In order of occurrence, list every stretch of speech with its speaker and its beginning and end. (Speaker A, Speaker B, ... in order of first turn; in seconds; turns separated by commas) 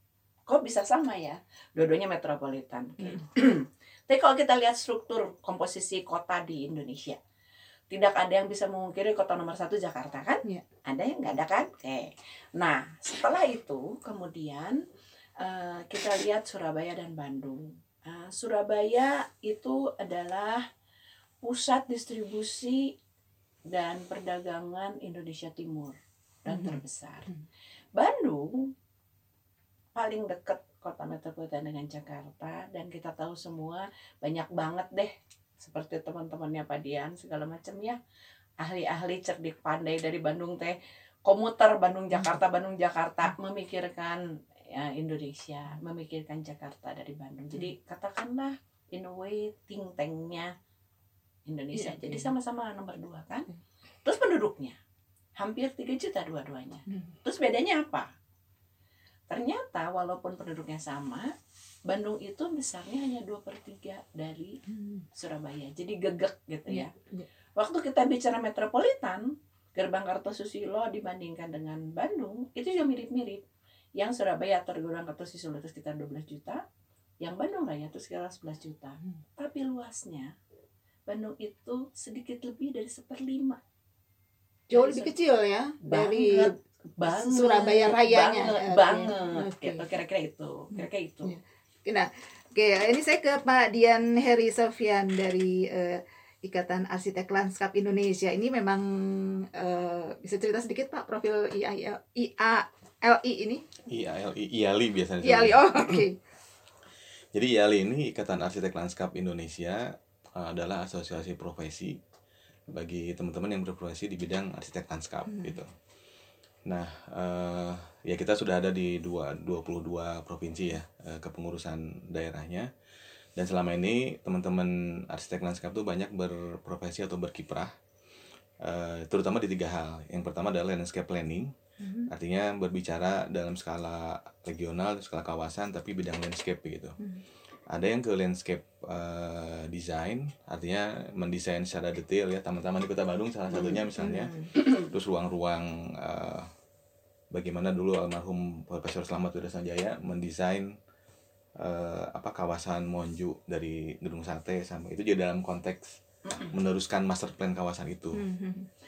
Speaker A: 0.5-7.2, Speaker A: 7.9-14.8, Speaker A: 15.4-20.6, Speaker A: 21.4-22.9, Speaker A: 23.7-27.3, Speaker B: 26.5-27.4, Speaker A: 28.0-28.7, Speaker A: 29.9-38.0, Speaker A: 38.6-50.5, Speaker A: 51.5-53.5, Speaker B: 51.7-52.3, Speaker A: 54.0-54.8, Speaker A: 55.4-58.1, Speaker B: 56.9-57.1, Speaker A: 59.3-61.3, Speaker A: 61.9-64.6, Speaker B: 64.7-65.0, Speaker A: 65.2-66.9, Speaker B: 66.7-67.3, Speaker A: 67.6-73.4, Speaker A: 74.0-76.6, Speaker A: 77.2-80.3, Speaker A: 81.1-83.6, Speaker B: 84.7-86.5, Speaker A: 84.7-85.1, Speaker A: 85.8-91.3, Speaker B: 87.0-89.8, Speaker B: 90.7-103.6, Speaker C: 103.9-106.0, Speaker B: 105.2-106.2, Speaker C: 107.3-112.0, Speaker C: 112.7-115.7, Speaker B: 115.3-115.6, Speaker C: 116.7-122.7, Speaker C: 123.4-127.7, Speaker C: 128.6-131.5, Speaker B: 131.8-132.1, Speaker C: 132.1-137.0, Speaker C: 137.7-146.5, Speaker B: 143.5-144.5, Speaker C: 147.3-150.7, Speaker C: 151.6-158.2, Speaker A: 156.3-156.5, Speaker B: 158.2-158.7